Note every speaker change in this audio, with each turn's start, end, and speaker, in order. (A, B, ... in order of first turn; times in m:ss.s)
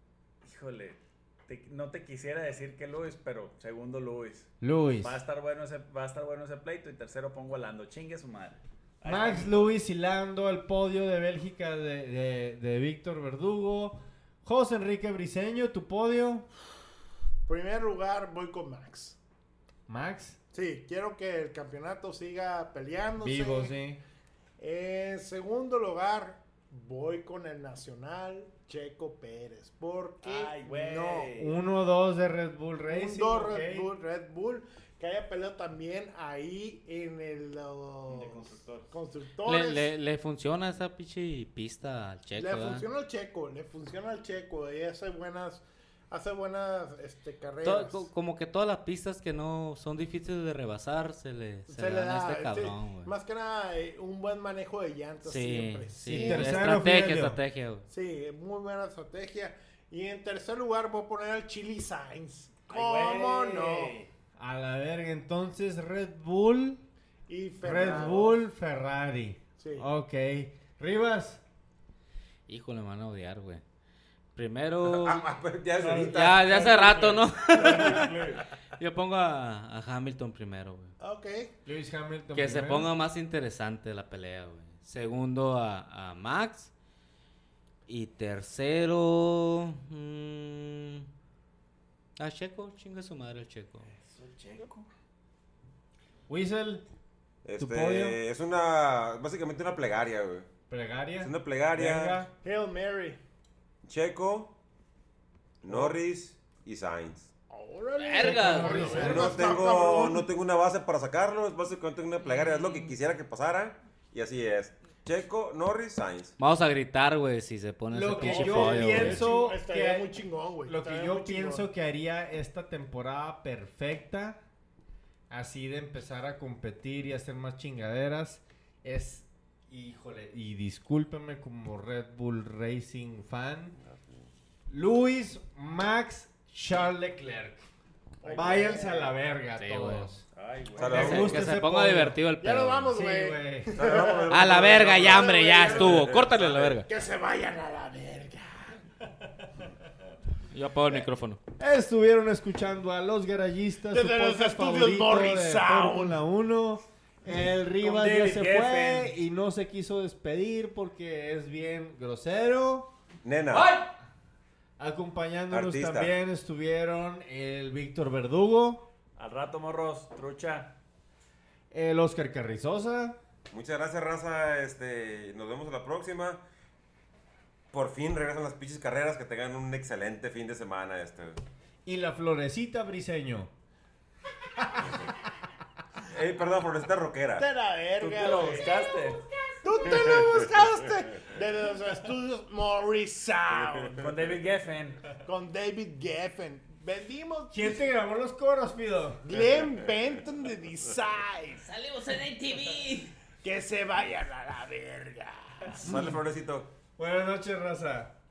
0:00.4-0:09.8 A
0:04.6-0:05.2 B
0:09.0-0:16.4 B
0:17.4-0:19.2 C
0:19.9-0:20.4 B
0:20.5-0:23.8 C
0:23.2-0:24.0 B
0:24.6-0:31.3 C
0:30.2-0:31.6 A
0:31.4-0:33.9 B
0:32.9-0:39.9 C
0:38.1-0:38.9 A
0:39.4-0:42.8 D
0:42.4-0:48.1 C
0:47.6-0:53.1 D
0:51.7-0:56.7 C
0:55.2-0:57.9 D
0:56.1-0:57.4 B
0:57.9-1:03.9 C
1:02.7-1:04.1 A
1:04.4-1:06.8 B
1:07.3-1:08.4 C
1:07.6-1:11.4 B
1:07.9-1:08.1 A
1:09.6-1:09.9 C
1:12.5-1:13.6 D
1:14.4-1:15.2 D
1:14.8-1:16.6 E
1:15.8-1:18.4 A
1:16.1-1:18.2 D
1:18.8-1:20.9 D
1:21.0-1:21.5 C
1:21.7-1:22.9 B
1:22.4-1:26.7 D
1:27.9-1:31.1 D
1:32.2-1:33.9 D
1:34.0-1:34.9 A
1:36.3-1:36.8 B
1:37.4-1:40.5 E
1:37.6-1:38.2 B
1:40.7-1:42.3 B
1:41.2-1:42.2 E
1:42.4-1:43.2 C
1:43.8-1:44.5 E
1:45.6-1:47.3 E
1:47.5-1:50.3 C
1:48.0-1:49.2 D
1:48.2-1:49.5 B
1:49.0-1:56.4 E
1:56.4-1:59.2 D
1:57.9-2:00.1 B
1:58.1-1:59.2 A
1:58.2-2:01.7 C
2:00.6-2:04.4 B
2:05.3-2:13.8 B
2:13.8-2:14.3 E
2:14.7-2:17.7 B
2:18.2-2:18.9 A
2:18.2-2:19.1 C
2:18.3-2:20.2 B
2:19.6-2:20.1 D
2:20.3-2:21.3 A
2:20.8-2:21.5 E
2:20.9-2:22.9 D
2:20.9-2:22.2 B
2:22.4-2:26.2 C
2:22.9-2:24.1 B
2:23.7-2:26.8 E
2:24.3-2:26.9 D
2:26.9-2:28.8 C
2:30.5-2:31.4 D
2:31.6-2:42.9 B
2:33.9-2:36.2 C
2:37.8-2:39.2 A
2:43.2-2:43.7 E
2:44.8-2:48.9 B
2:45.5-2:46.1 E
2:49.2-2:50.8 A
2:51.7-2:53.2 B
2:53.5-2:56.4 E
2:57.7-3:01.4 E
3:01.8-3:03.5 B
3:06.0-3:07.5 E
3:07.4-3:09.1 C
3:08.0-3:09.2 A
3:09.6-3:14.1 C
3:09.9-3:10.4 E
3:14.0-3:15.0 A
3:15.2-3:17.8 C
3:17.5-3:19.2 B
3:19.2-3:21.7 C
3:21.7-3:23.1 D
3:23.4-3:26.0 C
3:25.7-3:26.7 E
3:27.0-3:28.1 B